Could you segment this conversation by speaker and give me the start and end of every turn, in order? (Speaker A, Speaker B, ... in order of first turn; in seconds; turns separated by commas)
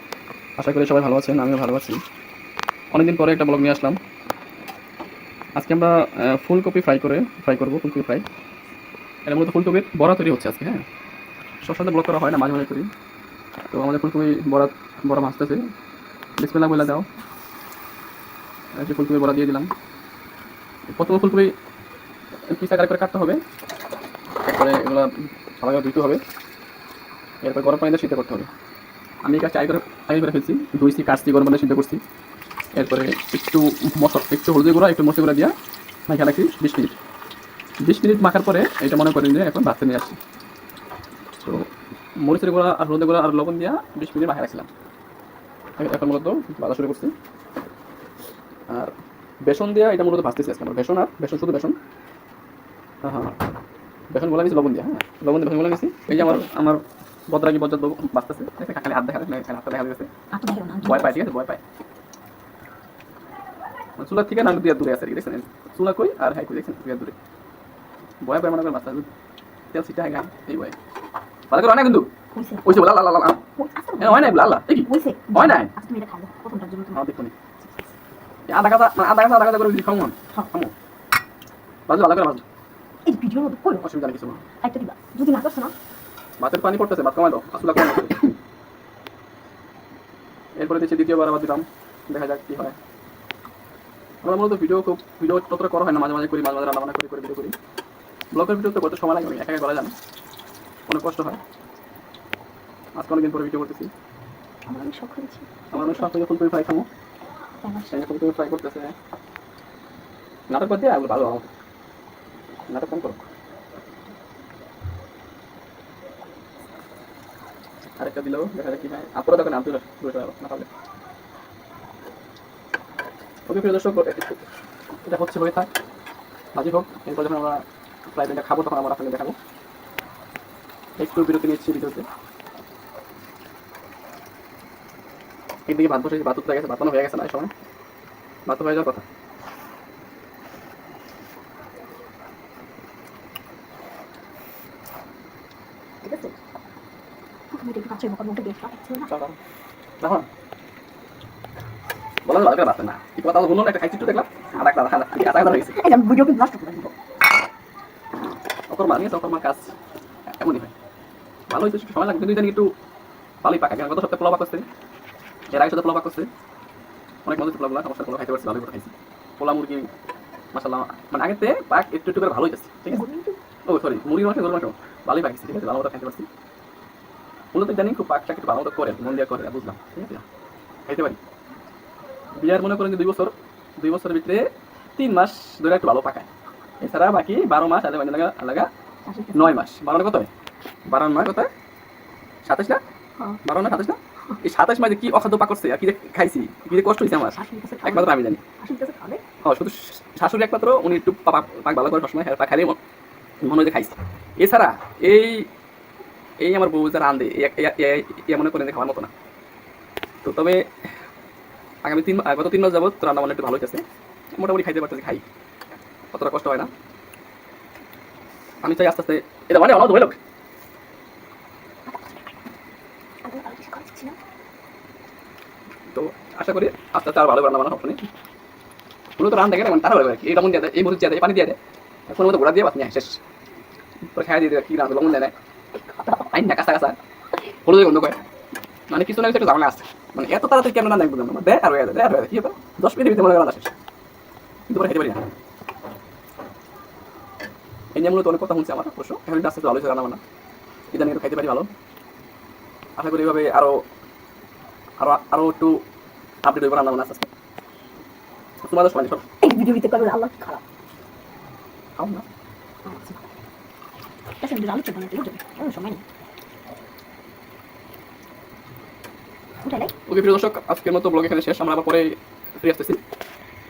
Speaker A: 0.6-2.0, Speaker A: 2.9-4.0, Speaker A: 5.5-8.2, Speaker A: 9.2-10.8, Speaker A: 11.6-12.9, Speaker A: 13.7-15.6, Speaker A: 16.4-17.1, Speaker A: 18.8-19.7, Speaker A: 20.9-21.5, Speaker A: 22.5-23.4, Speaker A: 24.4-26.2, Speaker A: 27.4-28.5, Speaker A: 29.2-32.0, Speaker A: 32.7-35.5, Speaker A: 36.1-37.0, Speaker A: 37.8-40.2, Speaker A: 42.2-44.7, Speaker A: 45.8-47.1, Speaker A: 49.4-51.8, Speaker A: 53.0-53.4, Speaker A: 54.1-60.1, Speaker B: 56.1-56.4, Speaker B: 60.3-61.2, Speaker A: 60.8-61.6, Speaker A: 64.0-67.1, Speaker A: 68.2-69.1, Speaker A: 69.7-70.7, Speaker A: 71.5-72.1, Speaker B: 72.3-72.9, Speaker A: 72.6-73.4, Speaker B: 73.6-77.0, Speaker A: 74.0-75.7, Speaker A: 76.9-77.3, Speaker A: 78.5-80.7, Speaker A: 81.9-82.4, Speaker B: 83.0-83.8, Speaker A: 83.8-84.4, Speaker B: 84.6-85.7, Speaker A: 86.4-88.3, Speaker A: 90.6-92.8, Speaker A: 94.2-97.5, Speaker A: 98.3-99.9, Speaker A: 100.9-101.4, Speaker A: 102.9-103.9, Speaker B: 104.7-106.1, Speaker A: 105.7-106.9, Speaker B: 107.6-108.0, Speaker A: 107.9-108.9, Speaker A: 110.5-111.5, Speaker A: 112.7-113.2, Speaker A: 118.0-120.7, Speaker A: 123.5-124.4, Speaker A: 125.0-125.7, Speaker A: 126.5-129.4, Speaker A: 131.0-132.1, Speaker A: 135.7-137.5, Speaker A: 138.4-139.0, Speaker B: 146.0-146.3, Speaker B: 147.5-149.1, Speaker A: 149.0-149.4, Speaker A: 150.0-150.3, Speaker A: 152.2-155.8, Speaker B: 155.4-156.9, Speaker A: 158.7-159.7, Speaker A: 160.3-160.7, Speaker A: 161.5-162.7, Speaker A: 163.4-164.7, Speaker A: 165.5-166.3, Speaker A: 167.2-169.9, Speaker A: 170.5-173.0, Speaker B: 172.9-173.4, Speaker A: 173.7-176.3, Speaker A: 177.5-180.2, Speaker A: 180.9-181.2, Speaker A: 182.3-186.3, Speaker A: 186.8-188.7, Speaker B: 189.1-189.6, Speaker A: 189.3-190.3, Speaker A: 190.9-191.5, Speaker A: 192.4-192.8, Speaker A: 193.4-198.4, Speaker B: 197.3-199.2, Speaker A: 199.4-202.8, Speaker A: 203.4-205.5, Speaker A: 206.4-209.1, Speaker A: 210.2-210.6, Speaker A: 211.8-215.2, Speaker A: 216.1-216.7, Speaker A: 218.6-220.2, Speaker B: 221.9-222.3, Speaker B: 223.2-224.2, Speaker A: 225.9-228.0, Speaker A: 229.2-231.6, Speaker A: 232.1-233.2, Speaker A: 234.1-235.3, Speaker B: 236.0-236.3, Speaker A: 236.2-237.0, Speaker A: 237.6-238.2, Speaker A: 238.9-243.7, Speaker A: 244.7-245.2, Speaker A: 247.9-250.2, Speaker A: 250.9-251.7, Speaker A: 253.0-253.8, Speaker A: 255.0-255.8, Speaker A: 256.4-257.3, Speaker A: 258.6-259.2, Speaker B: 259.4-260.6, Speaker A: 262.0-262.2, Speaker B: 262.8-263.2, Speaker B: 264.4-266.0, Speaker B: 269.6-269.9, Speaker A: 270.1-273.0